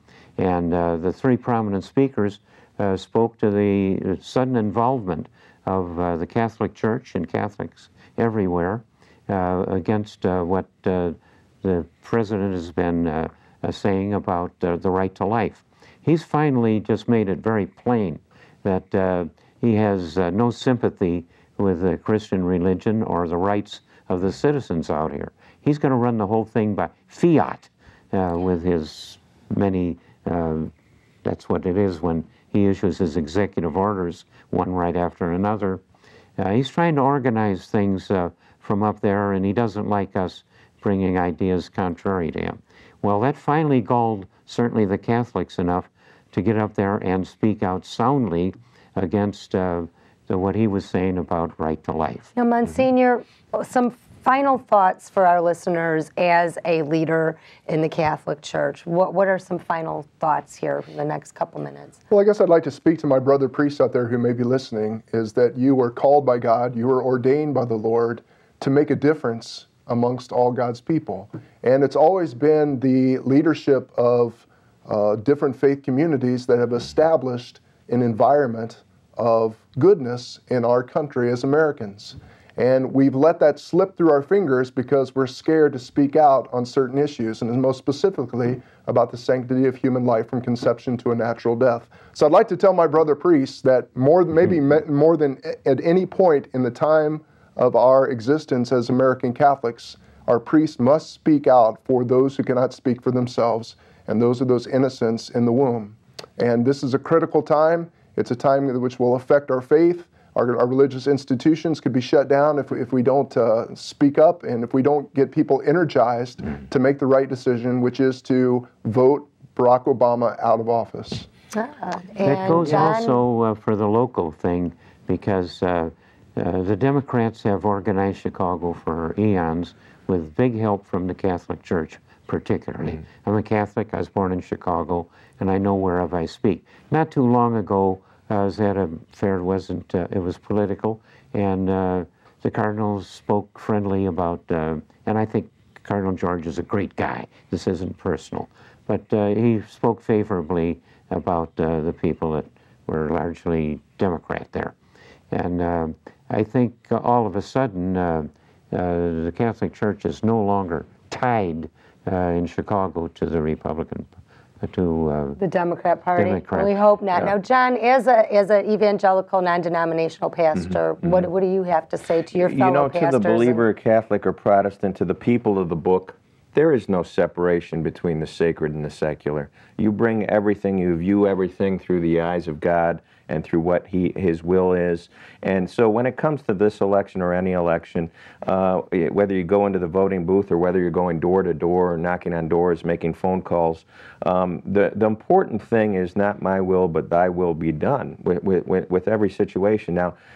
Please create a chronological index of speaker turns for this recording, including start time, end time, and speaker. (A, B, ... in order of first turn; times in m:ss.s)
0:00.4-0:30.7 A
0:31.2-0:35.8 A
0:36.4-0:52.3 A
0:52.3-1:01.9 B
1:02.1-2:01.3 C
2:01.5-2:03.2 B
2:02.2-2:34.7 A
2:35.3-2:44.1 A
2:44.6-2:45.4 A
2:45.4-2:53.6 B
2:46.2-2:46.8 A
2:52.3-3:20.1 D